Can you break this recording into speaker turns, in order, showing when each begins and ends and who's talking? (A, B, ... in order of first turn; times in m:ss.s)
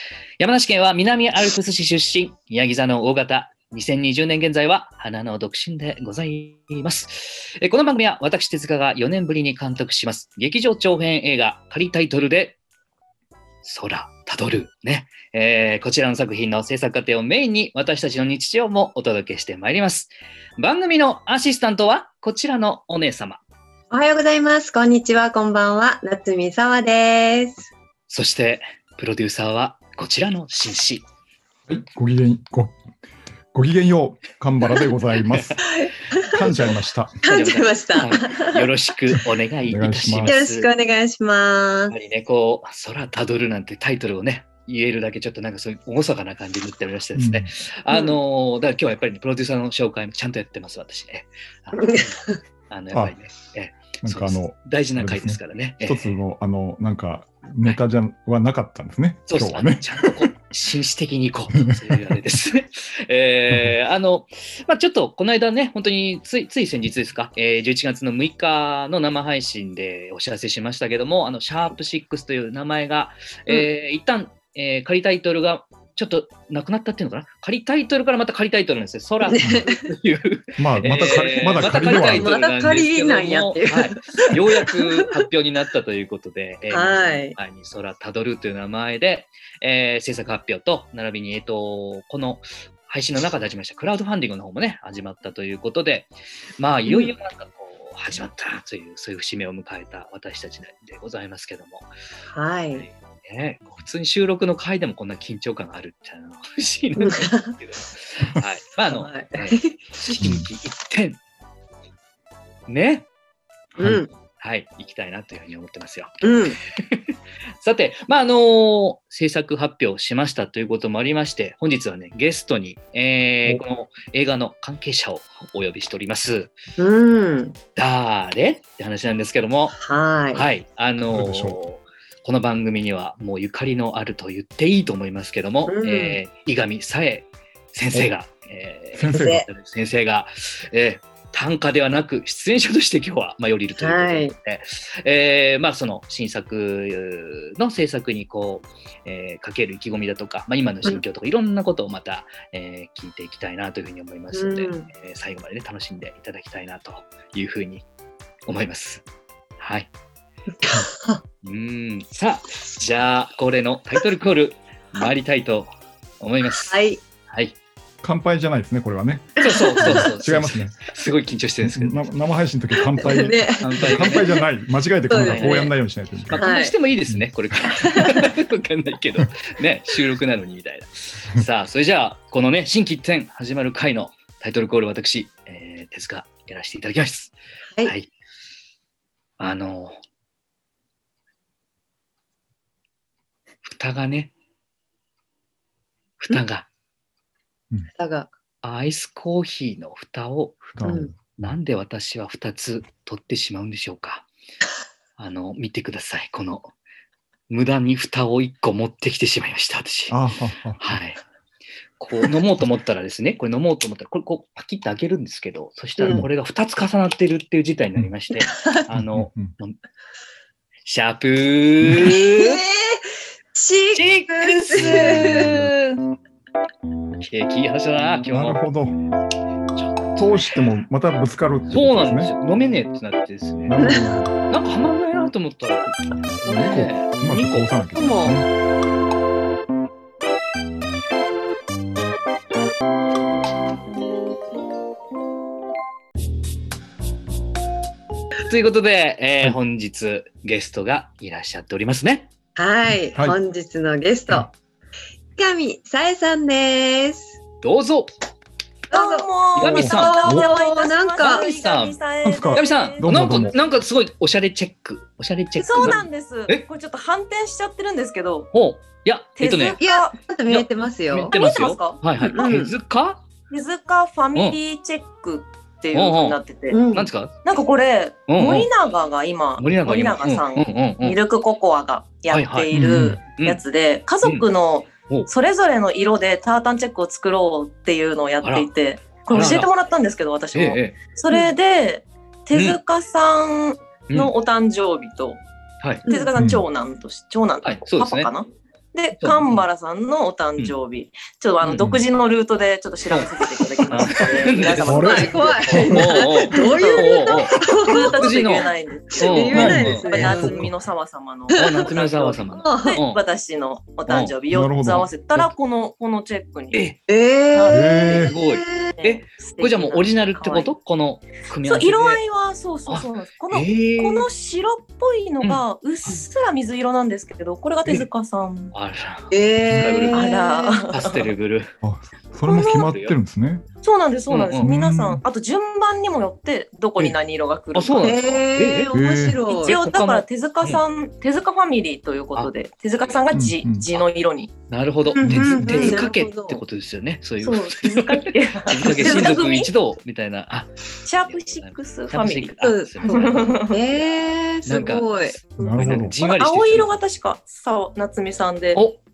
0:00.4-0:12.6 A
0:13.6-0:23.4 A
0:23.9-0:27.7 B
0:28.1-0:31.0 A
0:31.7-0:32.7 C
0:33.5-0:35.7 C
0:35.6-0:36.6 B
0:36.3-0:37.2 C
0:36.4-0:40.7 A
0:37.2-0:38.7 B
0:39.1-0:40.3 C
0:40.2-0:41.9 B
0:41.9-0:56.1 A
0:47.1-0:47.5 C
0:51.8-0:52.4 B
0:54.0-1:00.2 C
0:59.3-1:41.9 A
1:01.7-1:02.1 C
1:19.3-1:19.9 B
1:19.4-1:19.7 C
1:20.6-1:22.3 C
1:21.0-1:24.8 B
1:26.7-1:27.4 B
1:36.8-1:37.1 B
1:42.3-1:42.8 B
1:42.8-1:51.2 A
1:47.0-1:47.5 B
1:48.9-1:49.8 B
1:50.2-1:50.4 C
1:52.7-1:53.1 A
1:53.8-1:54.0 C
1:53.8-1:54.1 B
1:54.4-2:06.5 A
1:56.2-1:56.6 B
2:06.8-2:07.6 B
2:07.8-2:09.8 A
2:09.8-2:10.4 B
2:10.3-2:37.8 A
2:11.1-2:11.6 C
2:15.6-2:16.2 B
2:19.0-2:19.5 C
2:19.1-2:19.4 B
2:23.8-2:24.3 B
2:34.3-2:34.9 B
2:38.5-2:39.0 A
2:39.6-2:39.9 A
2:40.6-2:41.2 B
2:41.4-2:46.7 A
2:46.7-2:47.0 B
2:47.3-2:47.5 A
2:48.0-2:50.8 C
2:49.4-2:52.1 A
2:49.5-2:50.0 B
2:51.6-2:56.4 C
2:52.8-2:54.4 B
2:53.6-2:54.4 A
2:55.1-2:55.7 B
2:55.2-2:55.7 A
2:56.3-3:08.1 A
2:56.3-2:56.8 B
2:57.7-2:58.3 B
3:09.4-3:10.0 A
3:13.6-3:14.3 A
3:16.2-3:16.7 A
3:18.0-3:18.3 B
3:18.6-3:24.3 A
3:20.8-3:21.2 C
3:20.8-3:21.1 B
3:25.2-3:26.7 A
3:27.5-3:30.2 A
3:30.1-3:30.8 C
3:30.8-3:31.2 A
3:32.0-3:39.8 A
3:36.0-3:36.3 B
3:38.9-3:39.5 C
3:40.8-3:42.6 A
3:42.0-3:45.6 B
3:43.9-3:46.0 A
3:47.2-3:48.6 A
3:48.3-3:48.9 C
3:49.7-3:50.6 A
3:50.2-3:52.3 C
3:51.7-3:53.9 A
3:53.6-3:54.3 C
3:54.5-3:57.7 A
3:56.4-3:58.5 C
3:57.9-3:58.3 B
4:08.5-4:12.3 A
4:12.6-4:14.5 B
4:12.9-4:13.4 C
4:15.4-4:17.4 B
4:17.6-4:18.1 A
4:18.9-4:21.6 B
4:18.9-4:23.5 D
4:19.5-4:20.5 A
4:21.2-4:22.0 A
4:22.2-4:23.5 C
4:22.5-4:26.6 A
4:25.6-4:28.5 D
4:28.5-4:29.8 A
4:29.4-4:30.7 D
4:29.8-4:31.4 B
4:31.1-4:33.2 A
4:31.3-4:32.4 D
4:32.2-4:32.7 B
4:33.5-4:36.8 D
4:35.9-4:36.4 A
4:36.7-4:37.1 B
4:36.9-4:37.4 A
4:37.4-4:55.4 D
4:38.3-4:38.7 A
4:39.6-4:41.2 A
4:42.3-4:42.7 A
4:42.7-4:43.2 C
4:43.4-4:43.6 A
4:48.4-4:48.7 A
4:49.2-4:49.7 A
4:50.5-4:51.0 A
4:52.5-4:52.8 A
4:55.8-4:56.0 A
4:56.0-4:56.3 B
4:56.0-5:16.8 D
4:56.4-4:56.6 C
4:57.6-4:58.3 A
4:59.2-4:59.6 A
5:01.6-5:01.9 A
5:03.9-5:10.2 A
5:04.8-5:06.1 C
5:05.0-5:08.4 B
5:09.1-5:10.7 B
5:09.5-5:10.7 C
5:11.5-5:13.2 A
5:12.6-5:13.0 B
5:14.1-5:14.4 A
5:14.5-5:15.1 C
5:16.7-5:17.0 A
5:17.1-5:18.9 B
5:17.5-5:18.3 D
5:17.7-5:18.3 C
5:18.1-5:22.2 A
5:19.0-5:20.7 D
5:21.6-5:28.7 D
5:22.9-5:24.3 A
5:25.4-5:26.2 A
5:28.7-5:30.2 A
5:29.3-5:30.9 B
5:29.7-5:30.0 C
5:30.1-5:31.3 D
5:30.9-5:31.7 A
5:31.8-5:33.6 C
5:32.4-5:32.9 D
5:32.6-5:33.2 A
5:33.8-5:38.2 D
5:34.3-5:34.7 A
5:34.6-5:35.2 C
5:37.7-5:38.9 A
5:38.0-5:39.8 B
5:38.9-5:39.4 C
5:39.5-5:44.5 D
5:39.7-5:40.8 A
5:42.3-5:43.2 A
5:43.3-5:43.8 C
5:44.7-5:54.1 A
5:45.1-5:46.6 B
5:45.2-5:46.0 C
5:45.8-5:46.1 D
5:47.4-5:49.7 D
5:51.0-5:52.6 D
5:52.6-5:55.4 B
5:53.1-5:53.8 D
5:54.6-5:56.9 A
5:55.6-5:56.1 C
5:55.6-5:58.8 D